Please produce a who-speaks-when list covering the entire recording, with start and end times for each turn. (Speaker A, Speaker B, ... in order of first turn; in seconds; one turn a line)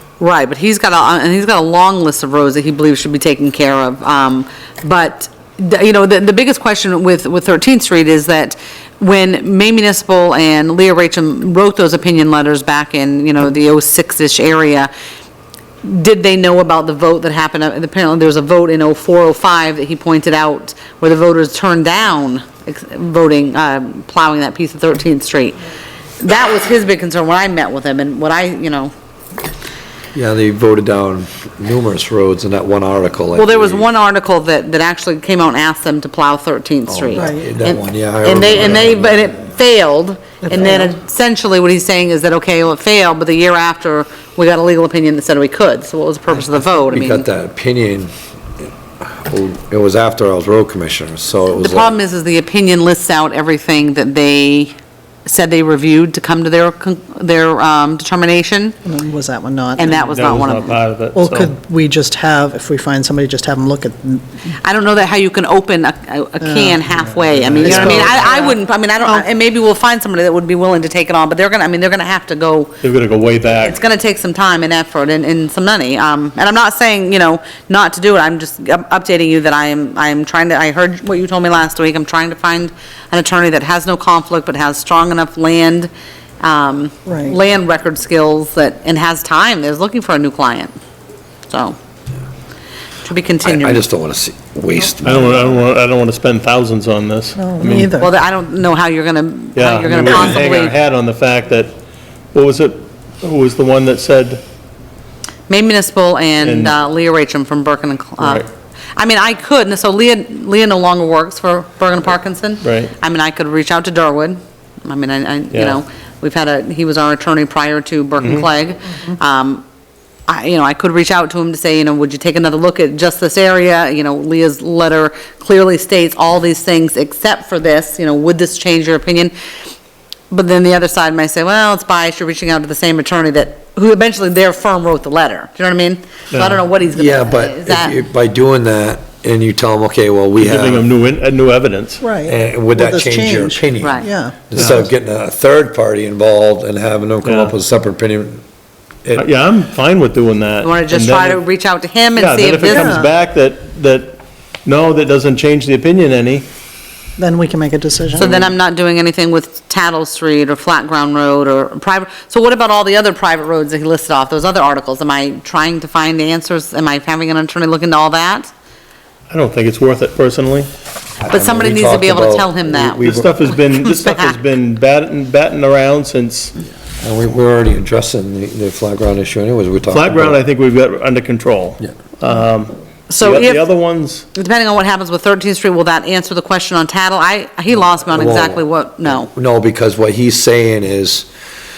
Speaker A: 0.2-14.9
Speaker A: 15.8-25.6
Speaker A: 26.2-28.9
Speaker B: 30.1-33.9
Speaker A: 33.3-47.3
Speaker B: 36.9-39.4
Speaker C: 37.2-37.5
Speaker C: 40.4-40.9
Speaker B: 46.9-48.1
Speaker B: 49.0-51.9
Speaker A: 51.5-54.7
Speaker A: 55.3-58.8
Speaker C: 58.8-60.3
Speaker A: 59.8-60.8
Speaker D: 59.9-61.5
Speaker C: 61.1-64.5
Speaker A: 64.6-72.8
Speaker C: 66.4-66.8
Speaker D: 67.0-68.4
Speaker C: 67.5-69.2
Speaker D: 72.8-73.8
Speaker A: 73.6-85.9
Speaker A: 86.4-90.8
Speaker C: 87.1-87.4
Speaker A: 91.5-91.8
Speaker A: 93.0-93.8
Speaker B: 93.4-95.5
Speaker D: 95.0-98.0
Speaker C: 97.4-98.1
Speaker A: 98.0-100.8
Speaker D: 99.5-101.8
Speaker D: 102.3-104.4
Speaker A: 105.5-119.6
Speaker D: 106.4-106.8
Speaker D: 108.2-108.5
Speaker D: 112.6-112.9
Speaker D: 115.5-115.8
Speaker D: 118.2-118.5
Speaker A: 120.3-129.3
Speaker A: 130.3-138.0
Speaker D: 136.3-136.6
Speaker B: 136.9-140.9
Speaker D: 140.4-142.0
Speaker C: 142.0-144.4
Speaker B: 142.3-148.4
Speaker A: 143.8-144.1
Speaker D: 144.6-144.9
Speaker D: 147.2-147.5
Speaker D: 149.2-151.4
Speaker A: 150.6-153.0
Speaker D: 152.2-156.5
Speaker C: 152.7-153.1
Speaker C: 157.2-158.5
Speaker A: 158.2-168.5
Speaker D: 158.2-158.5
Speaker D: 169.3-170.7
Speaker B: 171.2-173.3
Speaker A: 171.3-173.2
Speaker D: 173.0-176.6
Speaker A: 173.7-174.4
Speaker B: 177.0-180.4
Speaker D: 179.9-184.3
Speaker A: 183.1-183.7
Speaker A: 184.3-189.3
Speaker B: 188.1-191.3